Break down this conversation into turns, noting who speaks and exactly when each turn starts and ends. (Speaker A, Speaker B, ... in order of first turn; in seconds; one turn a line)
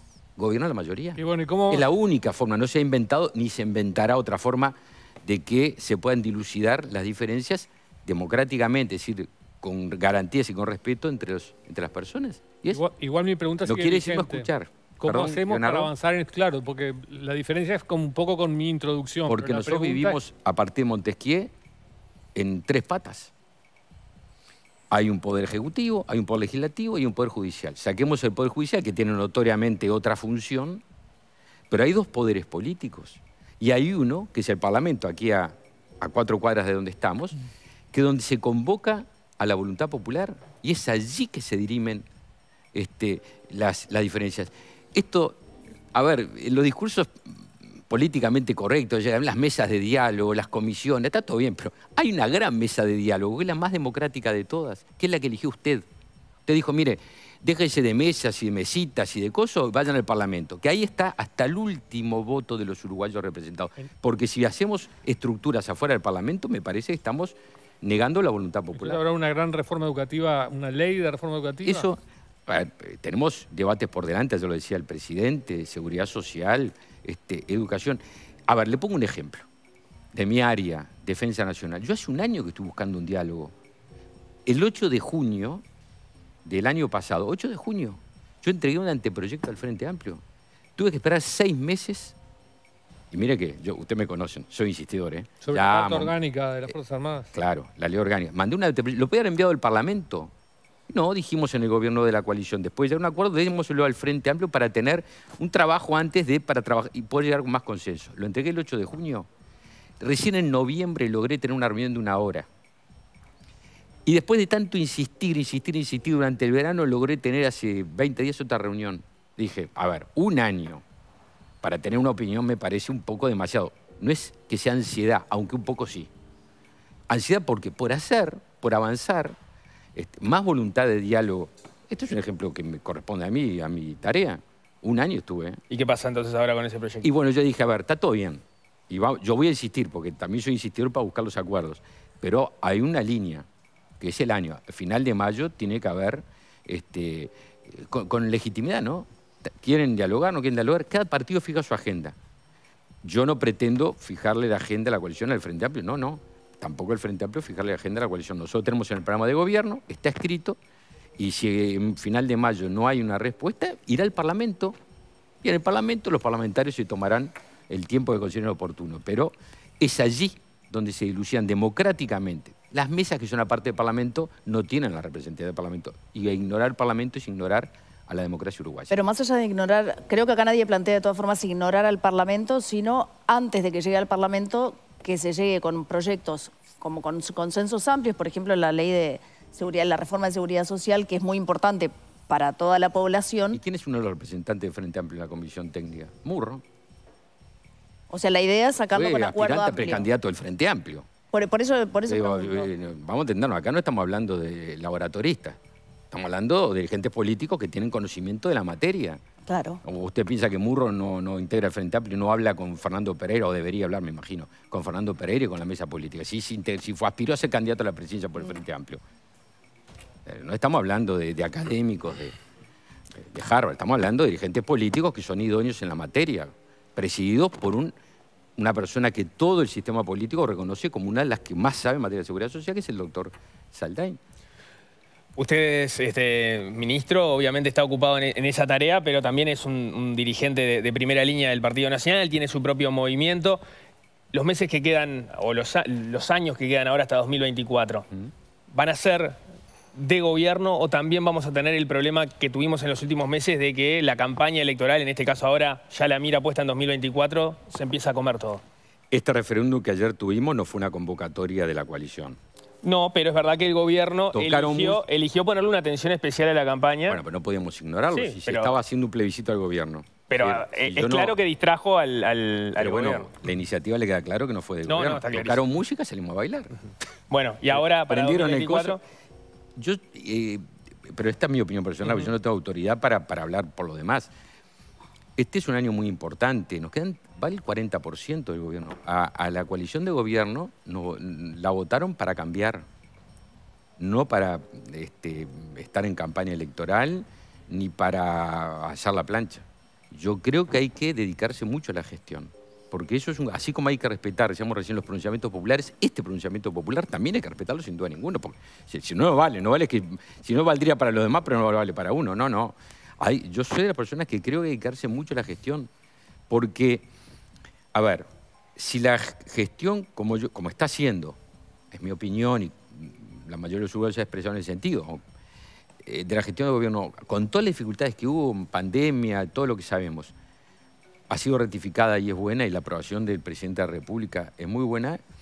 Speaker A: 0.4-1.2
Speaker B: 1.1-1.9
Speaker A: 1.7-12.8
Speaker B: 12.7-20.2
Speaker A: 13.6-15.9
Speaker A: 19.3-21.5
Speaker A: 22.4-23.3
Speaker A: 24.9-30.8
Speaker A: 31.7-37.4
Speaker A: 37.9-42.0
Speaker A: 42.7-45.4
Speaker A: 45.9-55.9
Speaker A: 56.5-69.0
Speaker B: 68.7-71.9
Speaker A: 71.6-79.5
Speaker A: 80.1-83.5
Speaker A: 84.5-85.6
Speaker A: 86.4-90.2
Speaker A: 90.8-92.2
Speaker A: 93.1-96.1
Speaker B: 95.4-97.3
Speaker A: 97.3-100.3
Speaker A: 100.9-109.3
Speaker A: 110.0-112.5
Speaker A: 114.0-120.8
Speaker A: 121.6-126.1
Speaker A: 127.1-129.3
Speaker A: 129.9-135.6
Speaker C: 135.7-137.1
Speaker A: 137.0-143.4
Speaker A: 144.0-152.2
Speaker A: 153.0-160.6
Speaker A: 161.2-164.8
Speaker A: 165.4-178.9
Speaker D: 178.9-193.6
Speaker A: 193.5-196.6
Speaker D: 198.1-200.1
Speaker A: 198.9-201.1
Speaker D: 201.3-202.7
Speaker A: 202.1-205.6
Speaker A: 206.1-209.2
Speaker D: 209.5-209.8
Speaker A: 209.8-219.0
Speaker A: 220.2-222.3
Speaker A: 223.2-227.9
Speaker A: 228.6-234.2
Speaker C: 235.4-243.6
Speaker C: 244.3-248.0
Speaker C: 248.7-249.4
Speaker C: 249.9-258.6
Speaker A: 259.1-262.4
Speaker C: 262.8-267.2
Speaker A: 264.3-265.0
Speaker A: 267.1-271.4
Speaker C: 268.1-268.8
Speaker C: 270.3-273.3
Speaker A: 272.8-276.7
Speaker C: 274.9-275.7
Speaker C: 277.3-279.0
Speaker A: 277.7-279.0
Speaker A: 279.8-284.3
Speaker C: 282.0-282.3
Speaker A: 285.4-292.9
Speaker A: 294.0-315.9
Speaker A: 316.5-317.1
Speaker A: 317.9-321.4
Speaker A: 321.9-325.2
Speaker A: 326.0-330.3
Speaker A: 331.3-335.2